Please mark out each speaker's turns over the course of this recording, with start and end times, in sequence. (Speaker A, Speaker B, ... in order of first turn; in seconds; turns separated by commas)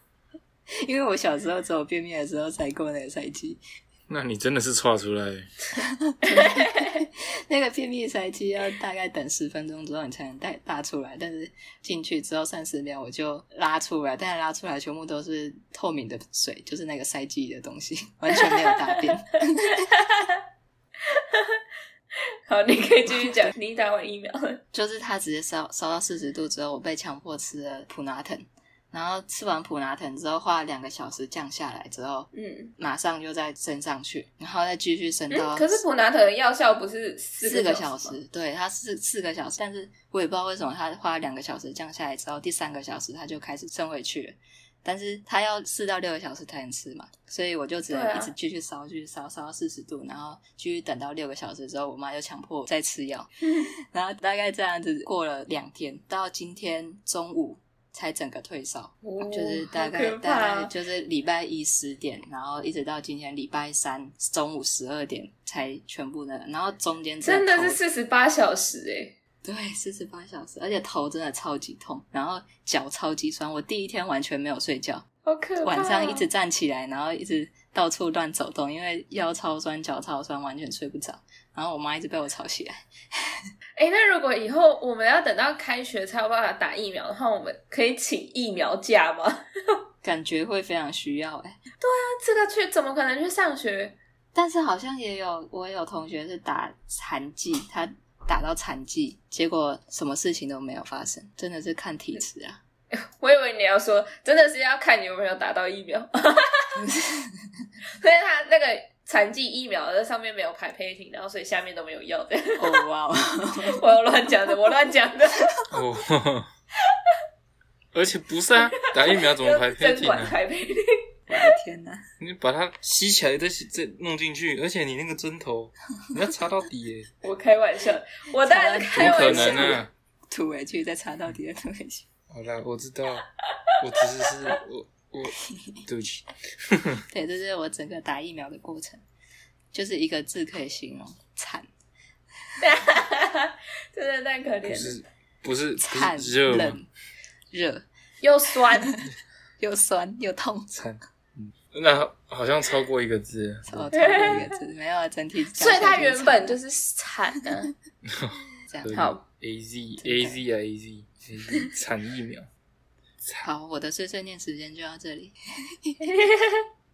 Speaker A: 0.8-3.6, Speaker B: 4.1-5.5, Speaker A: 5.8-19.8, Speaker C: 6.5-6.8, Speaker C: 18.3-19.0, Speaker C: 19.6-20.4, Speaker C: 21.1-21.6, Speaker C: 22.5-24.6, Speaker A: 24.7-35.8, Speaker C: 32.3-32.7, Speaker C: 35.3-38.2, Speaker A: 37.4-67.8, Speaker C: 47.9-48.3, Speaker C: 59.0-60.7, Speaker C: 67.2-69.2, Speaker A: 69.4-75.0, Speaker C: 75.2-76.3, Speaker A: 75.6-83.3, Speaker C: 83.8-89.4, Speaker A: 90.0-91.6, Speaker C: 91.8-94.0, Speaker A: 94.3-102.6, Speaker C: 102.9-106.8, Speaker A: 106.8-107.3, Speaker C: 108.0-112.8, Speaker A: 112.6-113.9, Speaker C: 113.7-115.5, Speaker B: 115.7-116.5, Speaker B: 117.9-120.3, Speaker C: 118.9-120.9, Speaker A: 121.3-122.0, Speaker B: 122.2-127.1, Speaker C: 127.2-129.8, Speaker A: 128.5-132.1, Speaker B: 128.9-129.9, Speaker B: 132.3-133.3, Speaker B: 133.8-136.2, Speaker A: 137.1-139.0, Speaker A: 139.7-141.7, Speaker C: 142.6-145.0, Speaker B: 144.7-146.8, Speaker A: 145.8-146.9, Speaker A: 147.5-147.9, Speaker C: 148.2-148.9, Speaker A: 149.6-150.7, Speaker B: 150.7-154.5, Speaker A: 153.7-156.6, Speaker C: 153.9-154.5, Speaker C: 155.5-157.7, Speaker A: 158.7-159.1, Speaker B: 158.8-162.5, Speaker C: 158.9-159.2, Speaker A: 160.0-160.4, Speaker B: 163.2-163.5, Speaker A: 163.4-166.1, Speaker C: 166.1-166.7